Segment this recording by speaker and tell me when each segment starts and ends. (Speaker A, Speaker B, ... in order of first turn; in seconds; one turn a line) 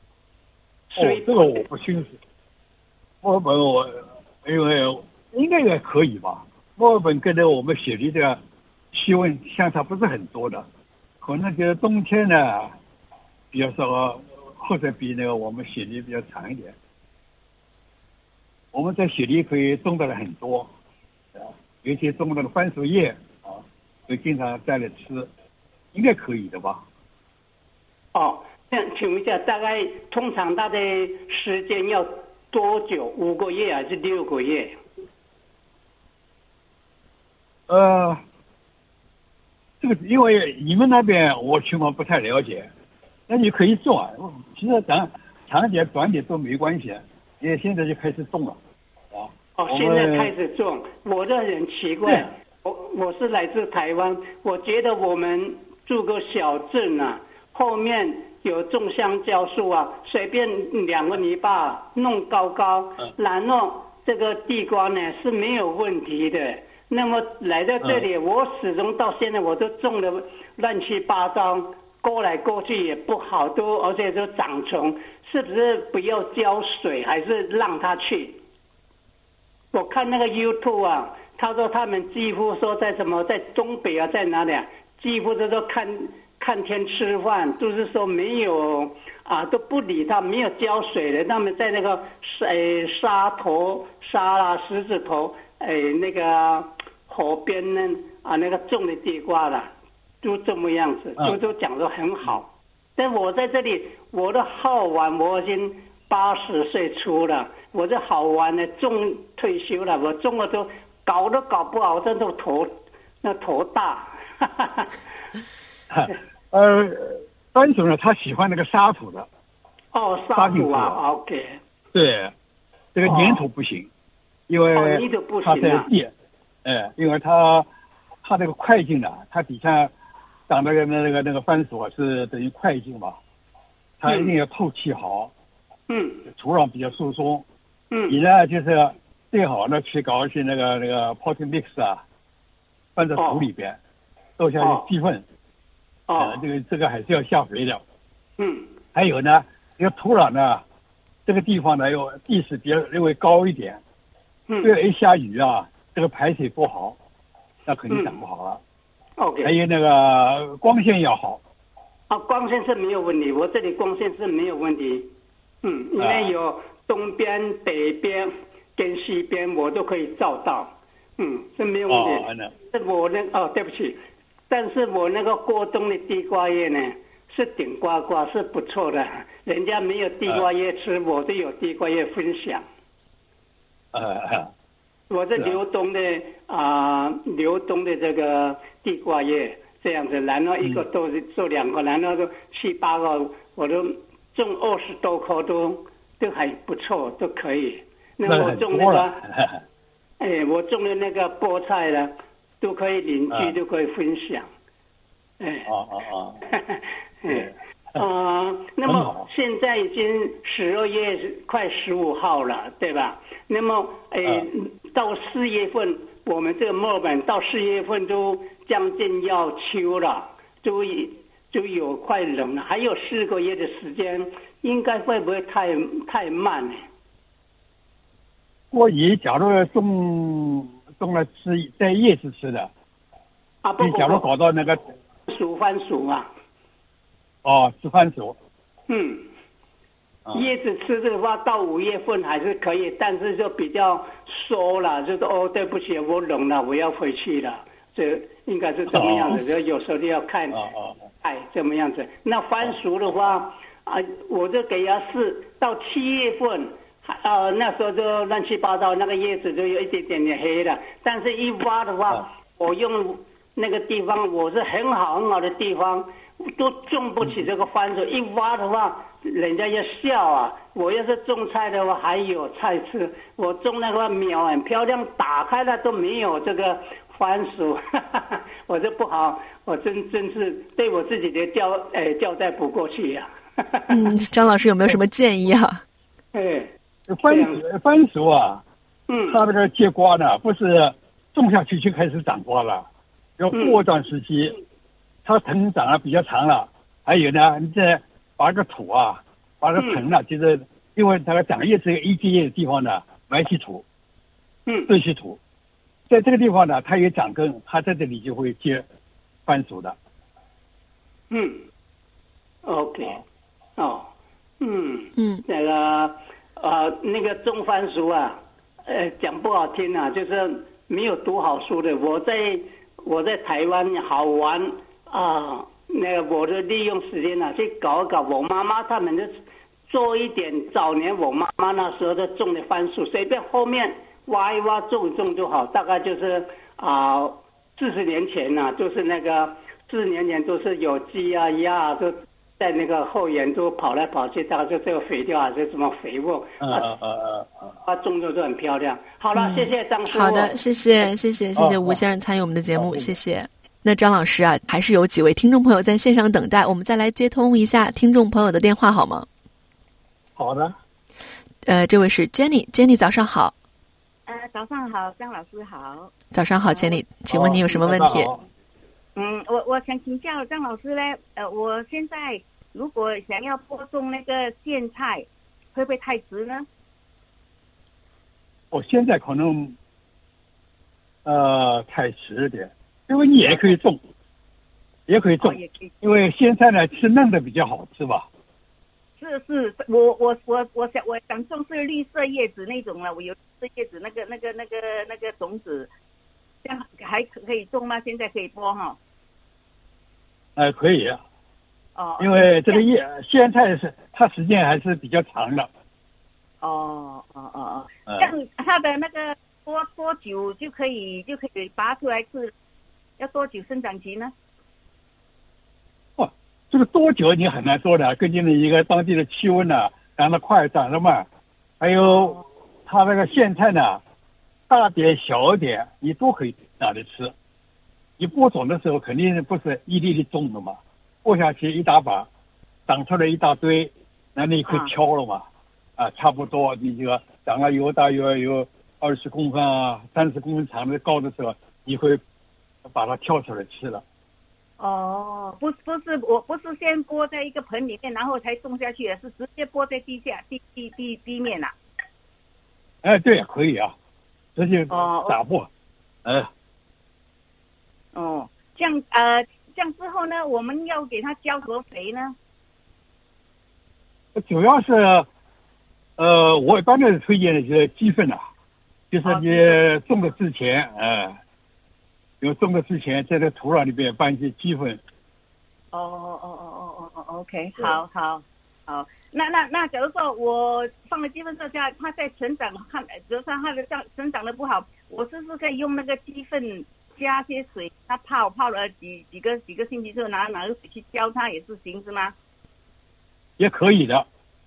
Speaker A: 0.9-1.7
Speaker B: 1.0-2.2
Speaker B: 3.2-8.4
Speaker B: 8.9-10.7
Speaker B: 11.2-12.8
Speaker B: 13.5-16.8
Speaker B: 18.7-20.7
Speaker B: 21.4-25.3
Speaker B: 25.9-26.8
Speaker A: 28.1-34.8
Speaker B: 37.7-38.2
Speaker B: 39.8-42.7
Speaker B: 43.3-48.6
Speaker B: 49.1-50.3
Speaker A: 49.6-78.4
Speaker A: 79.7-115.0
Speaker B: 115.9-119.3
Speaker A: 119.9-121.6
Speaker B: 120.4-121.0
Speaker B: 121.9-122.3
Speaker B: 122.9-123.9
Speaker A: 123.0-123.5
Speaker B: 124.5-126.1
Speaker A: 124.8-125.9
Speaker B: 126.6-127.7
Speaker B: 128.2-129.9
Speaker B: 130.5-133.2
Speaker B: 134.0-135.3
Speaker A: 134.1-134.3
Speaker A: 135.9-136.3
Speaker B: 136.3-137.4
Speaker A: 137.9-138.2
Speaker B: 138.1-142.0
Speaker B: 143.0-143.8
Speaker A: 143.2-143.5
Speaker B: 144.4-145.2
Speaker A: 144.6-144.8
Speaker A: 146.1-146.4
Speaker B: 146.2-147.8
Speaker A: 148.4-148.7
Speaker B: 148.9-150.6
Speaker B: 151.3-153.8
Speaker A: 154.5-154.7
Speaker B: 154.6-157.0
Speaker B: 157.7-158.6
Speaker A: 157.9-158.2
Speaker A: 159.2-159.5
Speaker B: 159.4-161.4
Speaker A: 162.1-165.1
Speaker A: 165.6-182.7
Speaker B: 166.0-166.3
Speaker B: 171.9-172.5
Speaker B: 183.9-184.5
Speaker A: 185.1-199.2
Speaker B: 198.3-199.6
Speaker A: 200.2-204.5
Speaker B: 203.3-203.6
Speaker A: 205.4-205.7
Speaker B: 205.7-206.4
Speaker A: 206.5-226.9
Speaker B: 207.3-208.0
Speaker B: 208.8-209.3
Speaker B: 228.7-232.7
Speaker A: 233.6-234.3
Speaker B: 233.8-234.8
Speaker A: 235.3-236.3
Speaker B: 237.4-238.4
Speaker A: 238.9-239.3
Speaker A: 240.3-250.6
Speaker B: 248.9-249.4
Speaker B: 250.5-251.1
Speaker A: 251.2-284.1
Speaker C: 283.9-285.8
Speaker A: 286.3-286.7
Speaker B: 287.1-288.6
Speaker A: 287.2-287.6
Speaker A: 289.1-289.4
Speaker B: 289.3-292.9
Speaker B: 293.4-294.6
Speaker A: 293.5-293.8
Speaker B: 295.2-303.8
Speaker A: 299.8-300.0
Speaker A: 304.7-304.9
Speaker B: 304.9-305.4
Speaker B: 306.1-308.9
Speaker B: 309.5-310.0
Speaker A: 311.3-311.6
Speaker A: 312.6-313.2
Speaker A: 313.8-314.1
Speaker A: 314.6-329.4
Speaker C: 315.2-315.4
Speaker A: 329.9-346.9
Speaker B: 346.6-347.8
Speaker A: 347.8-350.6
Speaker C: 349.3-359.3
Speaker B: 351.6-352.0
Speaker B: 352.8-353.1
Speaker B: 360.4-360.8
Speaker C: 361.6-363.5
Speaker D: 364.3-366.1
Speaker C: 366.3-368.3
Speaker D: 366.7-367.0
Speaker B: 367.3-368.4
Speaker D: 369.2-376.7
Speaker B: 378.7-379.8
Speaker B: 381.2-384.0
Speaker D: 383.4-383.8
Speaker B: 385.1-388.3
Speaker D: 385.4-385.9
Speaker D: 389.2-395.9
Speaker D: 396.6-399.0
Speaker B: 400.6-401.2
Speaker D: 402.0-402.8
Speaker B: 402.2-405.7
Speaker D: 406.6-412.5
Speaker B: 408.1-408.3
Speaker D: 413.2-414.3
Speaker B: 416.2-421.3
Speaker B: 421.8-424.0
Speaker D: 422.0-422.4
Speaker B: 424.7-427.3
Speaker B: 428.2-432.3
Speaker B: 432.9-435.4
Speaker D: 434.7-434.9
Speaker B: 436.0-442.2
Speaker B: 442.9-444.0
Speaker D: 444.8-451.7
Speaker B: 453.0-453.9
Speaker B: 454.6-455.7
Speaker D: 454.9-455.4
Speaker D: 458.1-462.4
Speaker B: 464.4-465.3
Speaker B: 466.2-468.5
Speaker B: 469.1-471.4
Speaker D: 469.2-469.8
Speaker B: 472.4-475.0
Speaker D: 475.9-492.4
Speaker B: 493.6-494.3